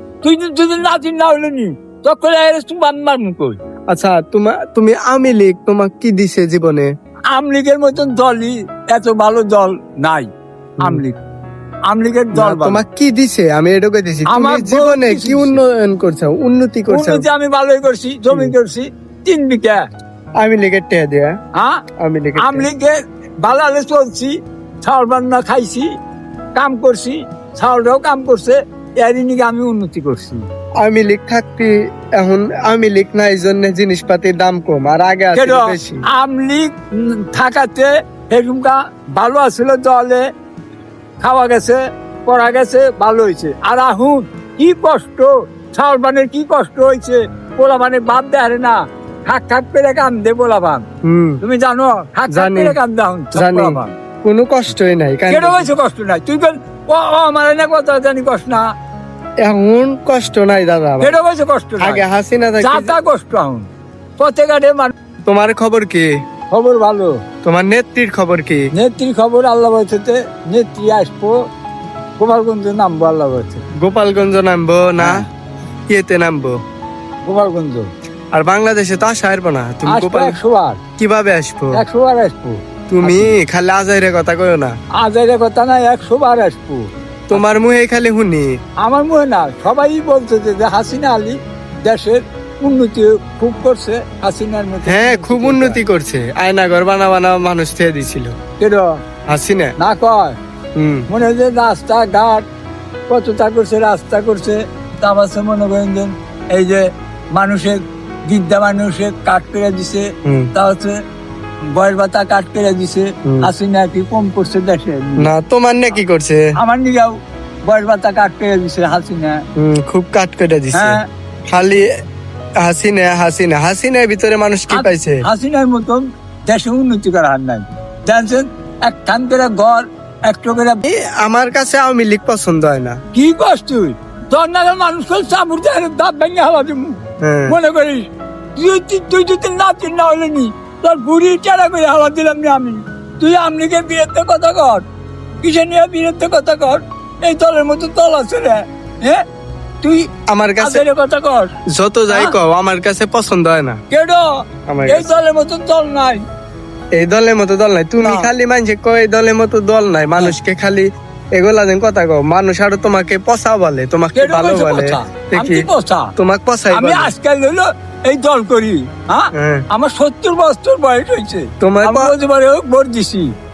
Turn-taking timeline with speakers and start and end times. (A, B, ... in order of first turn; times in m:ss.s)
0:00.2-0:03.6 A
0:03.9-0:06.9 B
0:07.3-0:10.3 A
0:10.8-0:11.2 A
0:11.8-0:12.8 A
0:12.3-0:17.3 B
0:14.3-0:15.6 A
0:16.9-0:19.8 A
0:20.4-0:21.4 B
0:21.5-0:21.8 A
0:22.0-0:22.7 B
0:22.4-0:26.0 A
0:26.5-0:30.4 A
0:30.8-0:36.0 B
0:35.3-0:40.2 A
0:41.2-0:50.9 A
0:51.0-0:51.4 B
0:51.4-0:54.0 A
0:52.3-0:52.8 B
0:53.3-0:55.7 B
0:55.3-0:58.7 A
0:59.4-1:01.2 B
1:01.0-1:02.1 A
1:01.8-1:02.9 B
1:02.6-1:04.9 A
1:05.3-1:06.1 B
1:06.5-1:07.2 A
1:07.4-1:08.7 B
1:08.7-1:11.5 A
1:12.2-1:13.6 A
1:13.8-1:15.3 B
1:15.0-1:15.3 A
1:15.9-1:16.6 B
1:17.2-1:17.9 A
1:18.3-1:20.4 B
1:19.8-1:20.8 A
1:21.0-1:21.8 B
1:21.7-1:23.4 A
1:22.9-1:24.7 B
1:25.0-1:27.5 A
1:27.3-1:28.6 B
1:28.8-1:35.9 A
1:34.8-1:38.3 B
1:38.6-1:39.0 A
1:39.3-1:39.7 B
1:39.8-1:40.4 A
1:40.8-1:41.1 B
1:41.1-1:42.4 A
1:43.1-1:51.0 A
1:51.7-1:55.3 A
1:53.3-1:53.5 B
1:55.2-1:56.5 B
1:56.6-1:59.4 A
1:59.6-2:01.9 B
2:00.7-2:01.1 A
2:02.6-2:05.2 B
2:04.7-2:10.8 A
2:10.9-2:13.0 B
2:13.1-2:24.8 A
2:17.2-2:17.6 B
2:25.4-2:29.2 A
2:29.8-2:31.5 A
2:30.3-2:30.8 B
2:31.7-2:33.8 B
2:32.1-2:32.4 A
2:33.9-2:34.2 A
2:34.7-2:35.1 B
2:34.8-2:36.2 A
2:36.9-2:47.1 B
2:38.0-2:38.3 A
2:44.1-2:46.1 A
2:46.7-2:53.3 A
2:49.4-2:49.6 B
2:51.6-2:52.1 B